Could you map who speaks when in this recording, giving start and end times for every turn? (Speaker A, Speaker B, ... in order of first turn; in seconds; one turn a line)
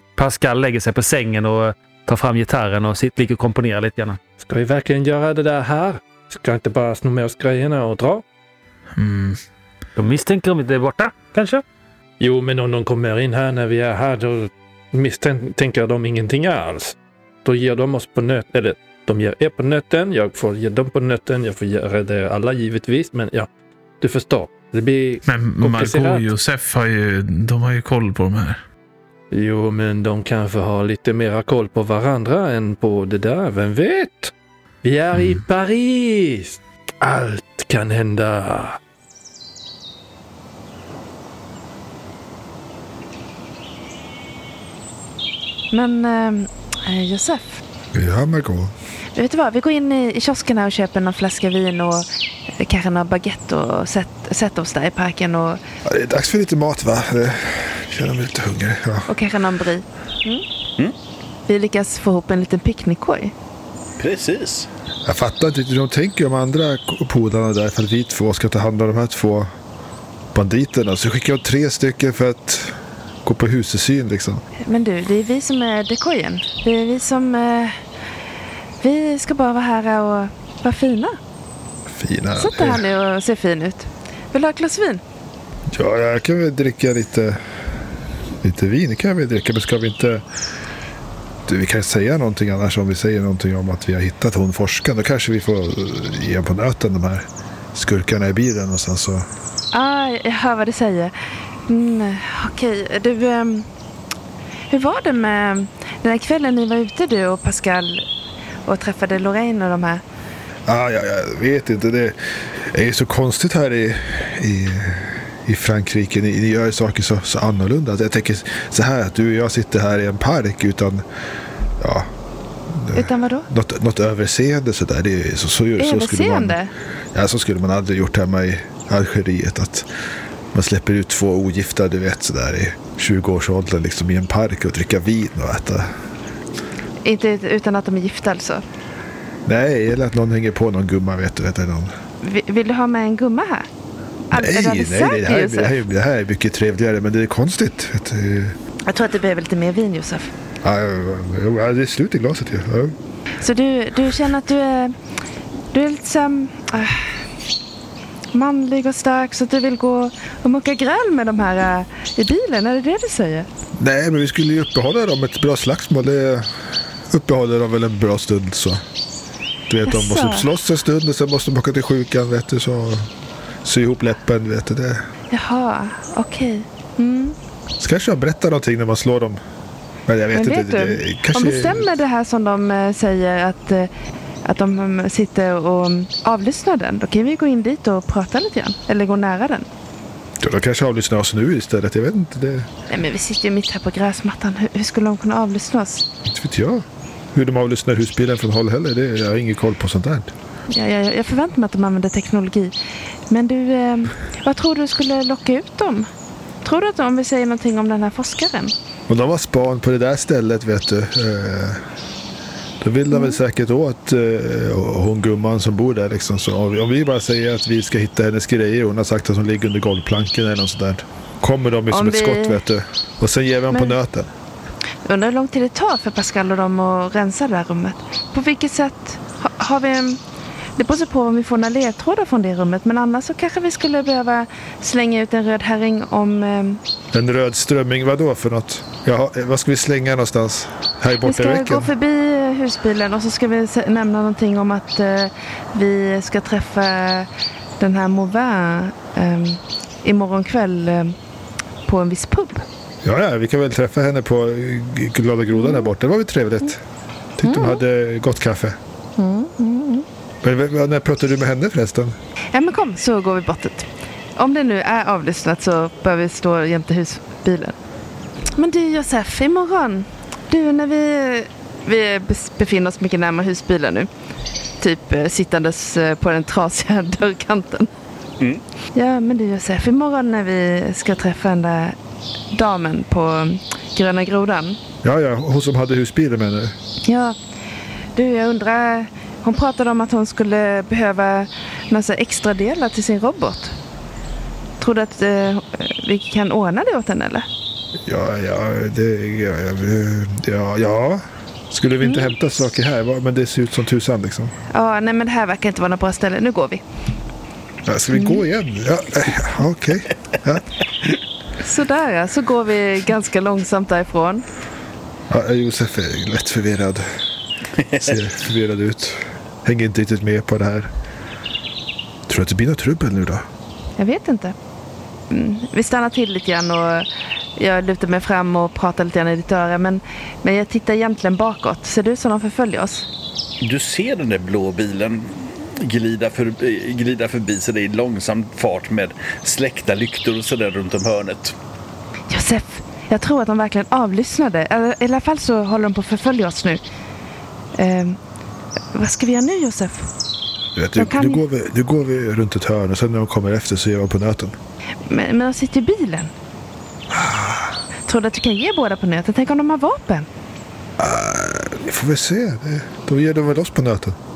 Speaker A: 0.2-4.2
Speaker B: 4.4-8.2
Speaker C: 9.0-9.4
Speaker A: 10.0-11.6
Speaker B: 12.2-23.5
Speaker B: 24.0-26.3
Speaker C: 25.3-28.6
Speaker B: 29.3-38.8
Speaker D: 45.7-47.6
Speaker E: 47.9-48.7
Speaker D: 49.1-52.1
Speaker D: 52.6-55.6
Speaker E: 55.8-59.1
Speaker D: 59.1-60.4
Speaker D: 61.5-63.3
Speaker F: 64.0-64.7
Speaker E: 65.0-69.5
Speaker E: 70.3-74.4
Speaker D: 74.6-77.8
Speaker D: 78.8-81.2
Speaker E: 81.9-82.8
Speaker D: 82.3-85.0
Speaker E: 85.7-87.4
Speaker E: 88.4-90.2
Speaker E: 91.5-99.2
Speaker D: 99.7-101.1
Speaker D: 101.7-103.7
Speaker D: 104.7-108.0
Speaker D: 108.7-110.0
Speaker E: 110.7-121.0
Speaker E: 121.8-122.1
Speaker E: 122.7-126.6
Speaker D: 123.0-123.5
Speaker D: 125.8-126.7
Speaker E: 127.1-129.9
Speaker E: 130.5-135.9
Speaker D: 137.0-138.6
Speaker E: 139.5-141.9
Speaker D: 142.2-143.7
Speaker D: 144.3-145.8
Speaker E: 144.3-148.6
Speaker D: 148.9-150.3
Speaker E: 150.6-152.9
Speaker D: 153.4-154.9
Speaker D: 155.7-157.0
Speaker D: 158.3-163.5
Speaker E: 163.8-166.5
Speaker E: 167.1-168.8
Speaker E: 169.7-173.1
Speaker D: 169.9-170.5
Speaker E: 173.6-175.0
Speaker D: 175.3-177.4
Speaker E: 177.8-179.4
Speaker E: 180.1-181.9
Speaker D: 180.3-183.9
Speaker D: 184.4-189.7
Speaker E: 190.4-192.7
Speaker D: 192.9-196.1
Speaker E: 196.3-200.3
Speaker D: 200.7-202.7
Speaker D: 203.3-206.1
Speaker D: 206.6-208.7
Speaker E: 209.1-211.8
Speaker E: 212.8-224.3
Speaker D: 213.1-213.4
Speaker D: 221.9-222.6
Speaker D: 225.1-230.2
Speaker D: 230.8-236.8
Speaker E: 237.1-241.9
Speaker D: 241.2-247.3
Speaker D: 247.8-251.2
Speaker D: 251.9-252.7
Speaker E: 253.0-256.8
Speaker D: 255.6-255.8
Speaker E: 257.4-258.8
Speaker D: 257.4-257.8
Speaker D: 259.2-260.1
Speaker E: 260.4-262.1
Speaker D: 262.5-267.8
Speaker D: 268.6-274.1
Speaker D: 274.8-277.9
Speaker D: 278.9-281.9
Speaker D: 282.5-284.8
Speaker E: 285.0-286.7
Speaker D: 287.1-287.4
Speaker D: 288.2-293.8
Speaker D: 294.8-297.5
Speaker E: 298.1-304.6
Speaker D: 302.0-302.3
Speaker D: 304.7-306.8
Speaker E: 307.9-310.7
Speaker D: 308.1-308.4
Speaker D: 311.6-314.4
Speaker E: 315.3-317.1
Speaker F: 317.8-318.1
Speaker E: 317.9-320.9
Speaker E: 322.3-323.4
Speaker D: 324.0-324.6
Speaker D: 325.3-333.1
Speaker F: 333.6-341.6
Speaker D: 342.3-346.8
Speaker D: 347.8-348.2
Speaker D: 348.9-350.1
Speaker E: 350.8-354.6
Speaker D: 351.0-351.4
Speaker D: 355.1-356.3
Speaker E: 357.1-357.8
Speaker D: 358.1-360.3
Speaker E: 361.0-364.2